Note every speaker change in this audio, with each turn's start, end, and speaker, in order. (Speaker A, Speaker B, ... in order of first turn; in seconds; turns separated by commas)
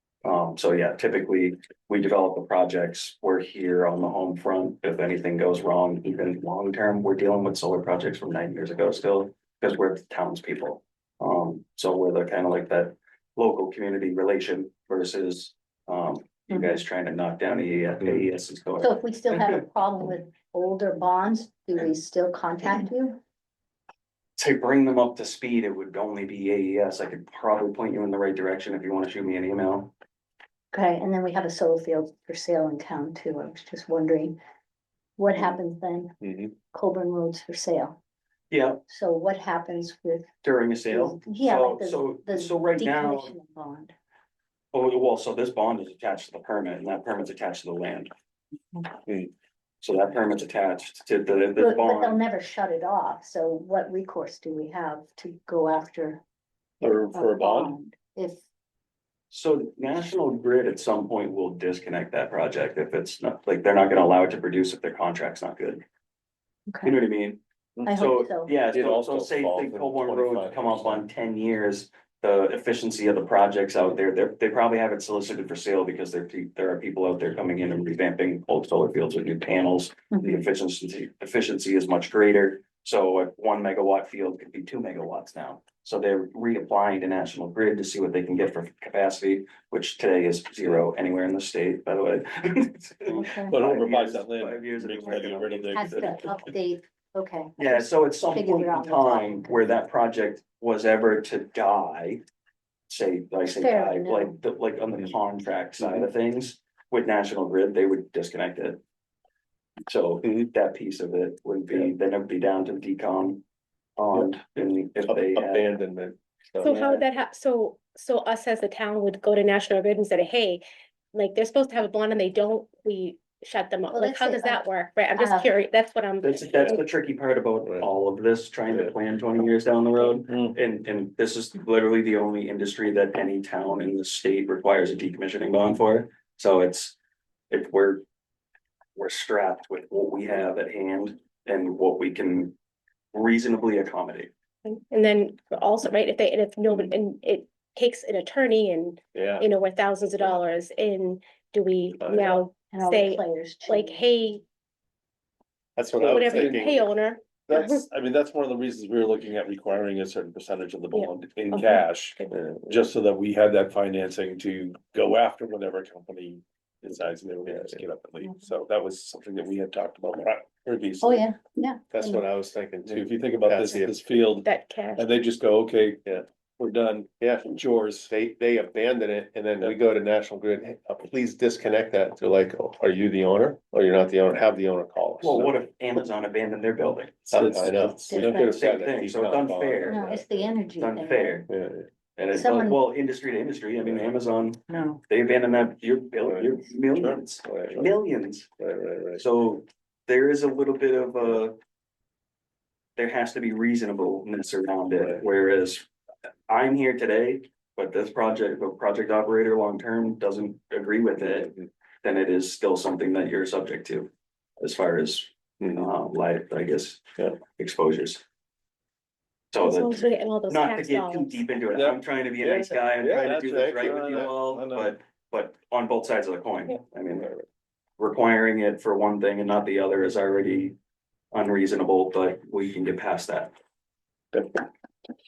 Speaker A: 0.2-19.6, Speaker B: 16.5-16.8, Speaker B: 18.8-23.2, Speaker A: 24.4-29.9, Speaker B: 30.7-34.4, Speaker B: 35.2-38.0, Speaker A: 38.5-38.8, Speaker B: 38.9-40.3, Speaker A: 40.4-43.3, Speaker B: 40.9-43.9, Speaker A: 44.7-48.1, Speaker A: 49.8-52.2, Speaker B: 51.5-56.2, Speaker C: 56.8-57.7, Speaker B: 56.9-58.4, Speaker A: 59.3-65.8, Speaker B: 66.7-67.0, Speaker A: 66.8-96.3, Speaker B: 67.8-68.5, Speaker D: 68.7-71.0, Speaker B: 93.1-93.6, Speaker C: 93.5-96.5, Speaker B: 95.7-99.7, Speaker A: 97.6-102.2, Speaker A: 102.9-108.8, Speaker B: 103.5-104.3, Speaker A: 109.9-113.4, Speaker A: 114.0-115.7, Speaker D: 115.0-117.0, Speaker E: 116.6-126.8, Speaker B: 123.9-125.5, Speaker A: 126.2-137.0, Speaker A: 137.5-138.0, Speaker A: 138.9-142.5, Speaker A: 143.1-144.3, Speaker E: 144.6-154.4, Speaker D: 149.1-149.4, Speaker D: 152.0-152.4, Speaker B: 152.7-154.0, Speaker D: 155.8-156.9, Speaker E: 156.0-157.8, Speaker C: 156.1-156.7, Speaker C: 157.5-171.2, Speaker E: 160.9-162.3, Speaker D: 162.3-162.8, Speaker D: 167.4-167.8, Speaker B: 171.0-172.2, Speaker D: 171.9-174.0, Speaker C: 172.8-176.0, Speaker E: 174.4-175.1, Speaker C: 176.6-178.1, Speaker D: 177.2-185.5, Speaker A: 185.2-187.4, Speaker D: 187.3-190.3, Speaker C: 187.3-188.4, Speaker B: 188.1-188.7, Speaker A: 188.3-191.5, Speaker B: 189.8-191.5, Speaker D: 191.5-191.9, Speaker A: 192.2-198.5, Speaker B: 192.3-192.8, Speaker B: 194.7-195.0, Speaker D: 196.2-197.9, Speaker D: 198.6-199.2, Speaker A: 199.2-201.6, Speaker A: 202.9-205.8, Speaker D: 205.0-205.2, Speaker A: 206.5-218.2, Speaker A: 219.5-227.3, Speaker E: 219.6-221.4, Speaker D: 222.4-224.3, Speaker C: 223.0-224.9, Speaker A: 228.0-230.8, Speaker A: 231.3-233.5, Speaker C: 234.3-234.6